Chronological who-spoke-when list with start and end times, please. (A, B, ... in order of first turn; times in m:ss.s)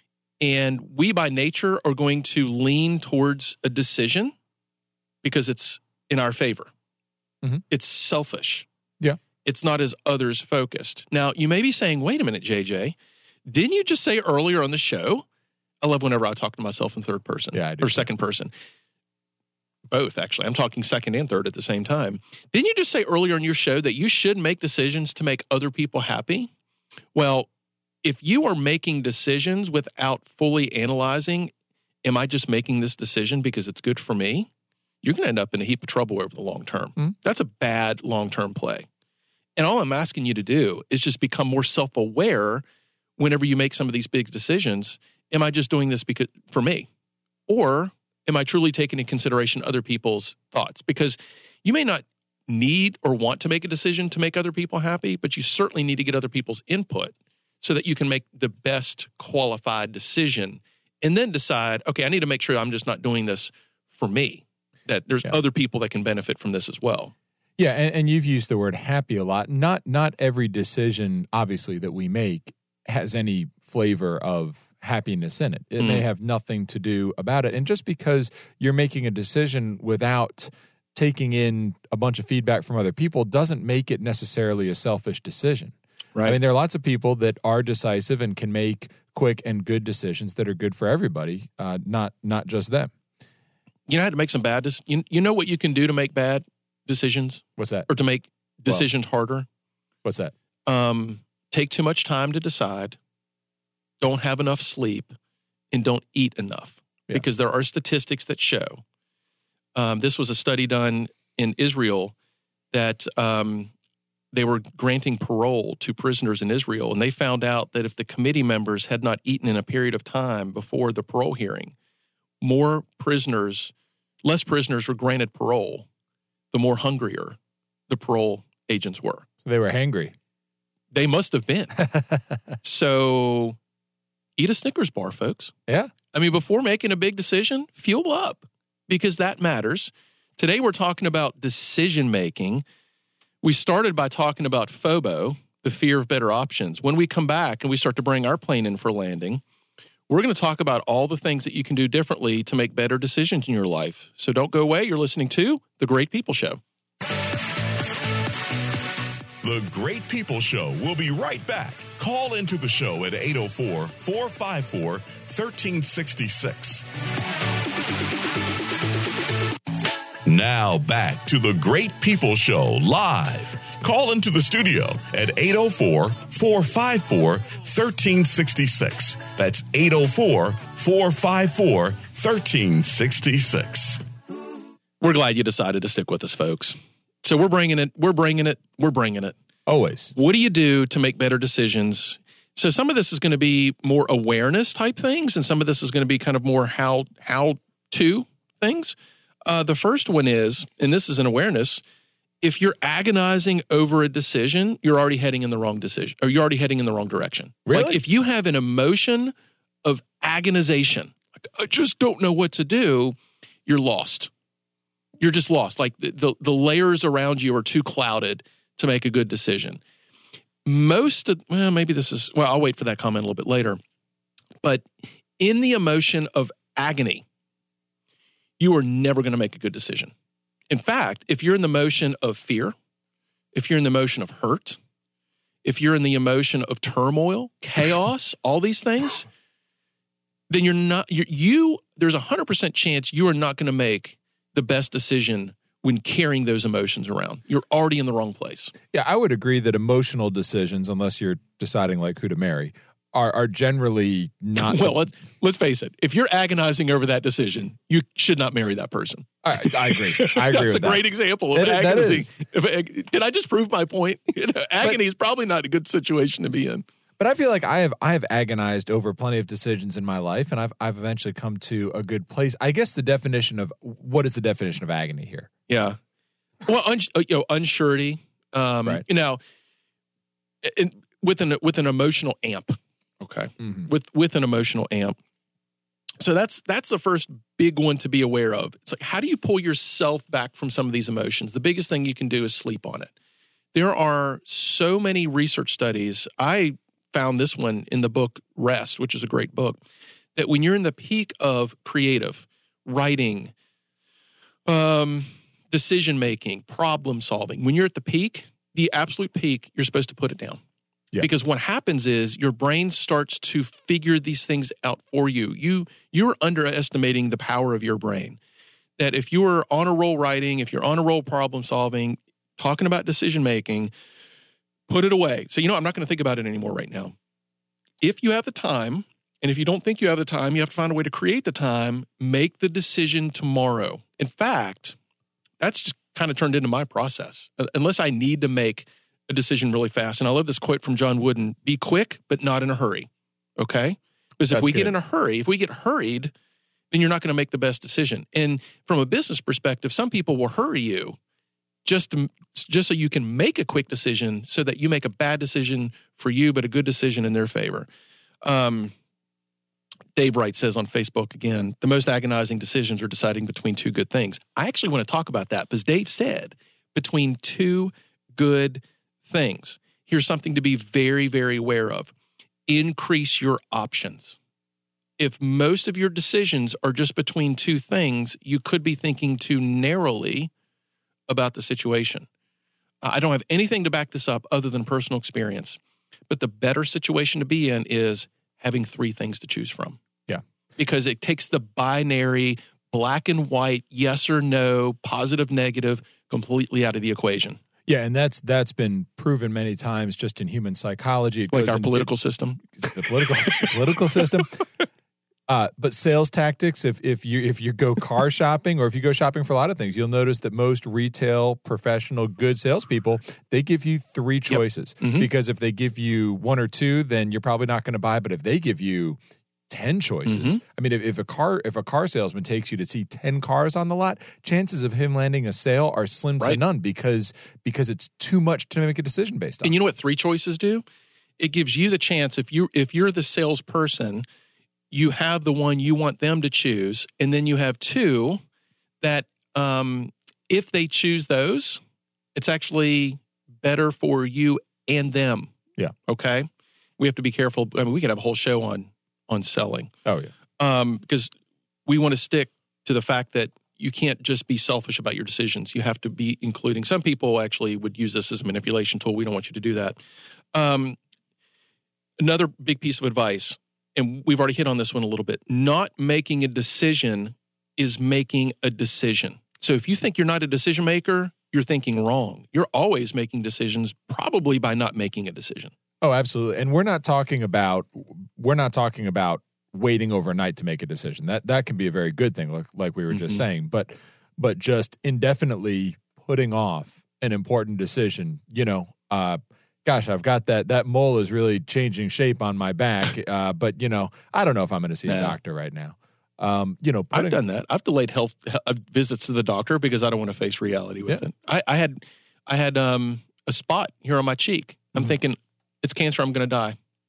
0:00.4-0:04.3 A
0:05.2-0:06.7 A
0:07.7-0:08.7 A
0:09.4-0:13.0 A
0:13.5-0:15.2 A
0:15.8-0:18.5 A
0:17.5-0:18.1 B
0:19.9-0:26.5 A
0:27.1-0:27.5 A
0:28.0-0:31.5 A
0:32.0-0:34.5 A
0:35.0-0:38.9 A
0:39.6-0:42.6 A
0:43.2-0:46.9 A
0:47.5-1:07.1 A
1:07.6-1:32.9 B
1:15.8-1:16.0 A
1:33.9-1:39.5 A
1:37.6-1:37.9 B
1:40.0-1:40.3 B
1:40.6-1:43.0 A
1:44.0-1:45.1 A
1:45.7-1:48.8 A
1:49.8-1:52.1 A
1:52.7-1:53.7 A
1:54.3-2:01.8 A
2:02.4-2:03.7 A
2:04.2-2:05.9 A
2:06.5-2:07.4 A
2:07.9-2:09.3 A
2:09.4-2:10.1 B
2:10.9-2:11.8 A
2:11.8-2:12.4 B
2:12.6-2:13.6 A
2:14.4-2:15.5 A
2:15.7-2:15.9 B
2:16.1-2:22.6 A
2:23.4-2:29.4 A
2:30.1-2:36.6 A
2:39.4-2:46.9 C
2:50.3-3:04.0 C
3:05.0-3:09.4 A
3:09.6-3:10.1 B
3:10.1-3:21.8 A
3:22.4-3:34.3 A
3:27.6-3:28.0 B
3:35.2-3:39.8 A
3:40.6-3:43.8 A
3:44.6-3:44.9 A
3:45.4-3:47.2 A
3:48.6-3:50.1 A
3:50.7-3:52.8 A
3:53.5-3:54.8 A
3:55.6-3:59.3 A
4:00.5-4:08.7 A
4:08.9-4:15.0 B
4:14.6-4:26.8 A
4:19.4-4:22.3 B
4:27.2-4:35.5 B
4:35.7-4:36.0 A
4:36.6-4:39.4 A
4:40.6-4:45.2 A
4:43.6-4:43.9 B
4:46.2-4:53.1 A
4:53.7-4:59.8 A
5:00.3-5:03.5 A
5:04.7-5:10.6 A
5:11.2-5:18.4 A
5:19.0-5:23.9 A
5:24.9-5:27.1 A
5:28.0-5:35.0 A
5:35.6-5:46.3 A
5:44.5-5:44.9 B
5:46.9-5:51.2 A
5:51.8-5:57.9 A
5:58.4-5:58.9 A
6:00.1-6:12.1 A
6:12.7-6:14.4 A
6:15.2-6:20.5 A
6:21.3-6:22.3 A
6:23.0-6:30.0 A
6:30.8-6:37.6 A
6:37.9-6:42.1 B
6:41.5-6:44.6 A
6:42.8-6:44.6 B
6:45.5-7:09.7 B
6:54.5-6:55.3 A
7:00.3-7:00.6 A
7:09.6-7:10.8 A
7:11.4-7:14.2 A
7:14.9-7:18.4 A
7:19.0-7:21.8 A
7:22.3-7:25.5 A
7:26.1-7:29.9 A
7:30.0-7:30.3 B
7:30.6-7:31.3 A
7:31.9-7:40.0 A
7:40.5-7:41.0 A
7:42.2-7:55.7 A
7:56.0-8:17.4 B
8:03.1-8:03.4 A
8:15.1-8:15.3 A
8:17.1-8:26.8 A